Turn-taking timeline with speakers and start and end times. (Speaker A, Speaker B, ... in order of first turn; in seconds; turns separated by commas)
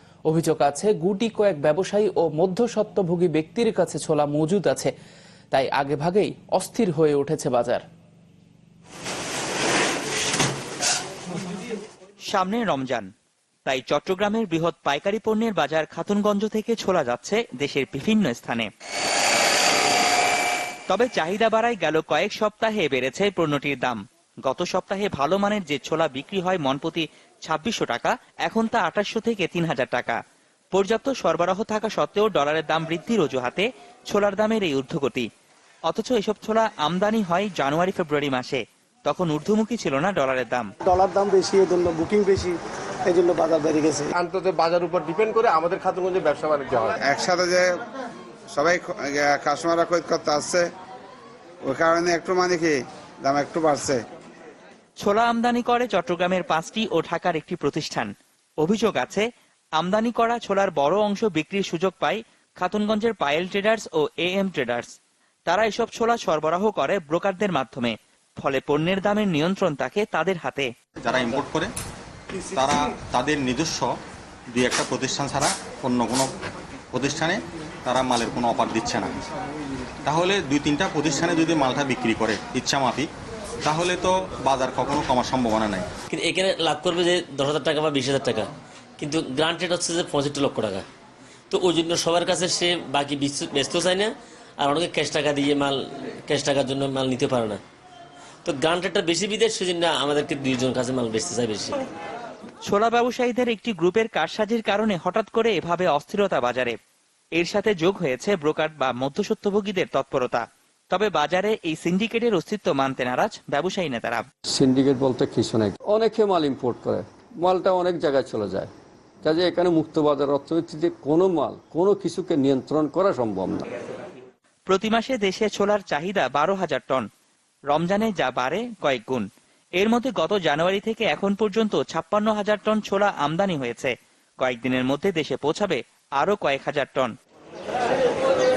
Speaker A: 0.3-4.9, Speaker A: 5.5-7.8, Speaker B: 12.3-13.1, Speaker B: 13.6-18.7, Speaker B: 20.9-30.2, Speaker B: 30.7-35.3, Speaker B: 35.9-40.7, Speaker C: 40.8-44.1, Speaker D: 44.2-47.0, Speaker E: 47.0-47.7, Speaker E: 48.5-50.7, Speaker E: 51.6-54.0, Speaker B: 55.0-59.2, Speaker B: 59.8-64.9, Speaker B: 65.5-70.7, Speaker F: 71.0-71.7, Speaker F: 72.5-73.9, Speaker F: 74.5-76.3, Speaker F: 76.9-79.1, Speaker F: 80.0-83.1, Speaker F: 83.6-85.9, Speaker G: 86.1-90.8, Speaker G: 91.5-97.6, Speaker G: 98.4-101.8, Speaker B: 102.7-106.8, Speaker B: 107.3-114.2, Speaker H: 114.5-118.7, Speaker H: 119.2-123.7, Speaker B: 124.7-127.1, Speaker B: 127.7-129.2, Speaker B: 129.8-137.1